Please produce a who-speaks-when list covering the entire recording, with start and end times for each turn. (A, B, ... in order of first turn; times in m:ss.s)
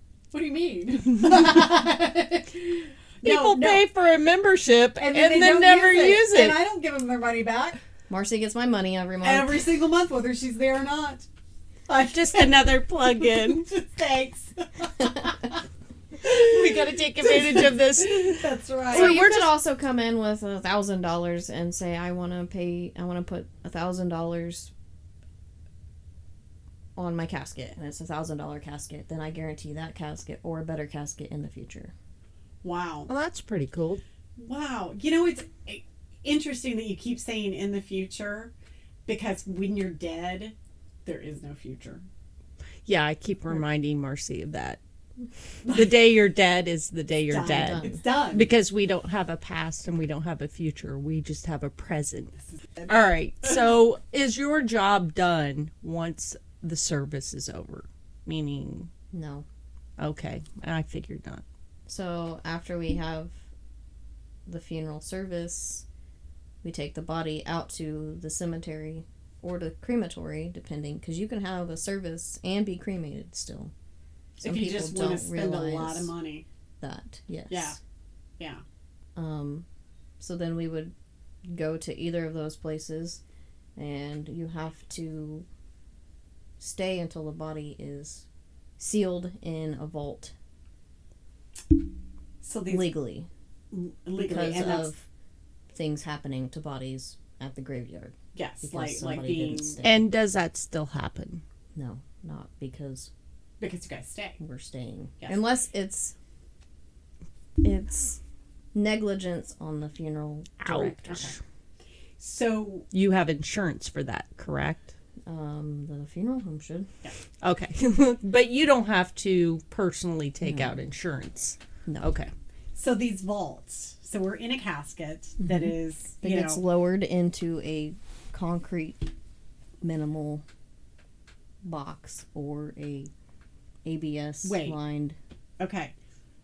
0:00.3-0:03.8 A
0:03.2-0:06.6 B
0:05.0-0:07.8 A
0:08.1-0:09.8 C
0:09.2-0:11.3 A
0:11.9-0:15.6 A
0:12.1-0:13.7 B
0:16.2-0:19.5 B
0:16.3-0:19.2 A
0:18.9-0:24.7 C
0:27.0-0:31.9 C
0:32.6-0:33.1 A
0:33.1-0:34.0 B
0:34.4-0:38.5 A
0:39.1-0:40.5 A
0:41.0-0:42.0 A
0:42.9-0:44.8 B
0:45.6-0:45.9 A
0:45.6-0:52.4 B
0:47.3-0:48.5 A
0:47.4-0:48.0 C
0:52.6-0:53.6 A
0:52.9-0:58.9 B
0:59.1-0:59.5 C
1:00.0-1:01.4 B
1:01.9-1:03.4 C
1:04.5-1:05.8 C
1:06.6-1:13.7 C
1:14.4-1:16.1 C
1:14.4-1:16.4 A
1:16.8-1:17.8 C
1:17.5-1:17.8 A
1:19.2-1:19.7 C
1:20.2-1:20.9 C
1:21.5-1:23.2 C
1:23.8-1:25.5 C
1:26.6-1:28.3 C
1:28.8-1:30.3 C
1:32.4-1:33.0 A
1:32.7-1:33.3 C
1:33.7-1:34.9 A
1:34.2-1:35.1 C
1:35.7-1:40.1 C
1:38.4-1:39.8 A
1:39.8-1:41.4 B
1:41.7-1:43.1 C
1:43.6-1:44.4 A
1:44.4-1:46.1 C
1:47.6-1:48.2 C
1:48.7-1:51.3 C
1:50.6-1:51.4 B
1:51.1-1:51.3 A
1:52.2-1:52.9 A
1:52.9-1:54.9 B
1:55.3-1:56.9 C
1:57.4-2:02.3 B
2:00.4-2:00.8 C
2:01.9-2:02.1 C
2:02.8-2:06.6 A
2:05.4-2:09.1 C
2:09.8-2:10.4 C
2:11.6-2:13.1 C
2:13.8-2:15.2 C
2:14.4-2:14.8 A
2:15.6-2:15.9 A